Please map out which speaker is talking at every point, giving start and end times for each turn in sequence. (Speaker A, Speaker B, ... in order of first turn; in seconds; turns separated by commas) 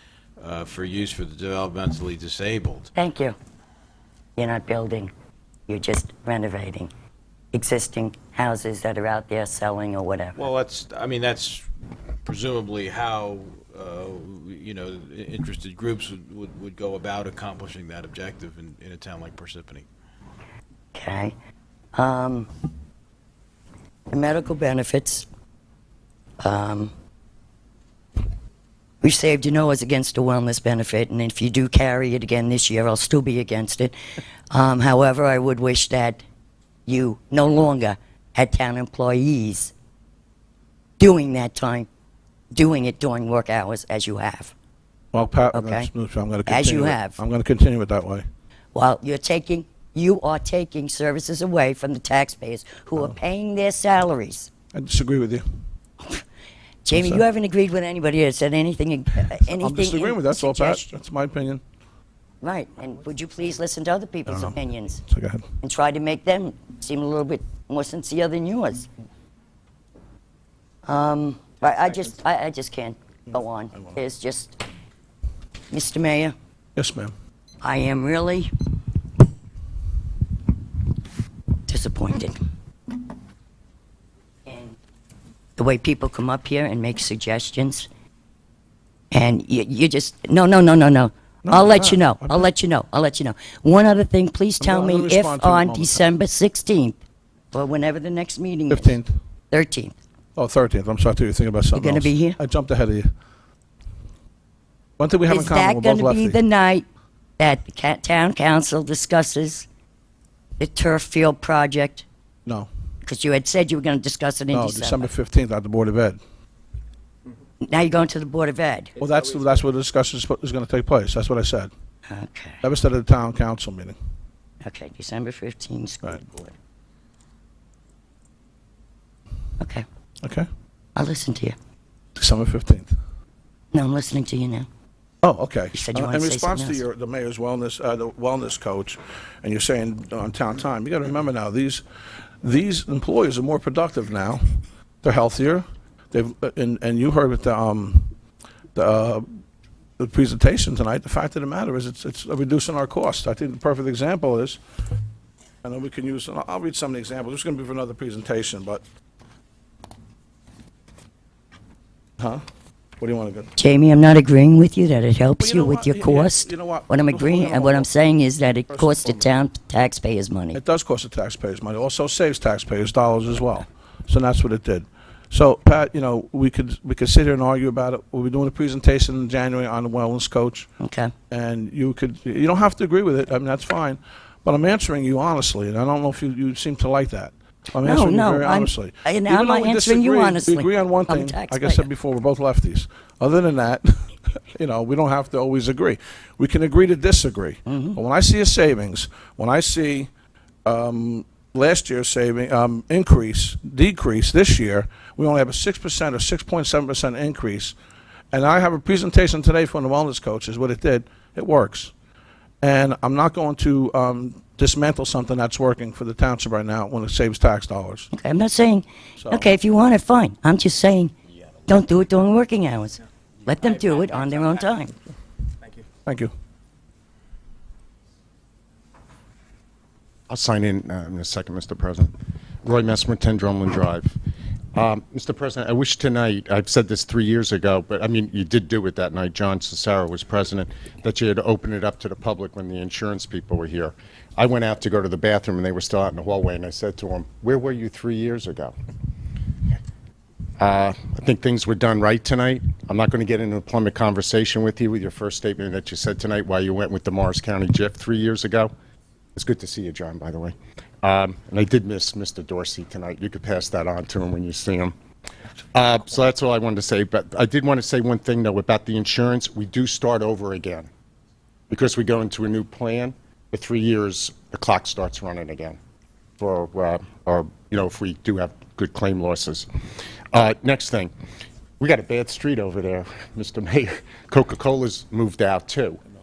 Speaker A: 0.4-2.9, Speaker B: 3.0-3.4, Speaker B: 4.4-5.1, Speaker B: 5.7-6.9, Speaker B: 7.5-10.4, Speaker A: 10.3-11.7, Speaker A: 12.2-19.9, Speaker B: 20.9-21.3, Speaker B: 21.9-22.5, Speaker B: 24.1-25.2, Speaker B: 26.4-26.9, Speaker B: 29.0-33.9, Speaker B: 34.5-36.2, Speaker B: 36.9-39.7, Speaker B: 41.0-41.9, Speaker B: 42.5-44.5, Speaker C: 45.1-48.2, Speaker B: 45.5-45.9, Speaker B: 46.5-47.2, Speaker B: 48.7-54.5, Speaker C: 54.7-55.4, Speaker B: 56.8-60.8, Speaker C: 56.9-57.2, Speaker C: 59.4-61.6, Speaker B: 62.4-65.0, Speaker C: 64.3-65.5, Speaker B: 65.6-68.9, Speaker B: 70.8-74.6, Speaker B: 75.7-76.3, Speaker C: 76.8-77.1, Speaker B: 77.6-78.5, Speaker B: 81.7-82.4, Speaker B: 84.5-84.8, Speaker B: 85.6-87.9, Speaker B: 89.1-97.0, Speaker C: 91.4-92.5, Speaker C: 94.6-96.1, Speaker B: 97.5-99.0, Speaker C: 98.7-99.2, Speaker B: 99.5-100.0, Speaker C: 100.3-103.1, Speaker B: 101.7-102.4, Speaker C: 105.0-106.4, Speaker B: 105.3-106.8, Speaker B: 107.4-109.7, Speaker B: 110.6-112.0, Speaker B: 113.0-115.1, Speaker C: 114.5-116.2, Speaker B: 117.6-119.0, Speaker C: 119.0-121.7, Speaker B: 122.1-122.6, Speaker C: 122.6-124.0, Speaker B: 124.6-126.5, Speaker B: 129.6-129.8, Speaker B: 130.9-131.5, Speaker C: 132.2-132.9, Speaker B: 133.7-134.7, Speaker C: 135.2-141.8, Speaker B: 135.7-136.8, Speaker C: 142.4-148.1, Speaker C: 148.7-149.4, Speaker C: 150.0-154.6, Speaker C: 155.6-158.8, Speaker C: 163.0-163.5, Speaker B: 163.6-170.6, Speaker C: 165.4-167.9, Speaker C: 168.7-169.2, Speaker C: 170.5-180.7, Speaker B: 180.8-181.1, Speaker C: 181.3-200.1, Speaker B: 187.8-191.8, Speaker B: 197.7-198.0, Speaker C: 200.6-207.7, Speaker C: 208.3-211.9, Speaker C: 212.6-218.1, Speaker B: 218.1-221.1, Speaker C: 219.2-219.5, Speaker B: 221.7-224.9, Speaker C: 226.0-226.3, Speaker D: 230.3-232.1, Speaker D: 232.6-234.1, Speaker D: 234.7-248.7, Speaker D: 250.6-258.7, Speaker D: 259.4-264.9, Speaker D: 265.7-270.9, Speaker D: 271.7-275.8, Speaker D: 276.4-279.7, Speaker D: 280.3-281.1, Speaker D: 281.8-286.0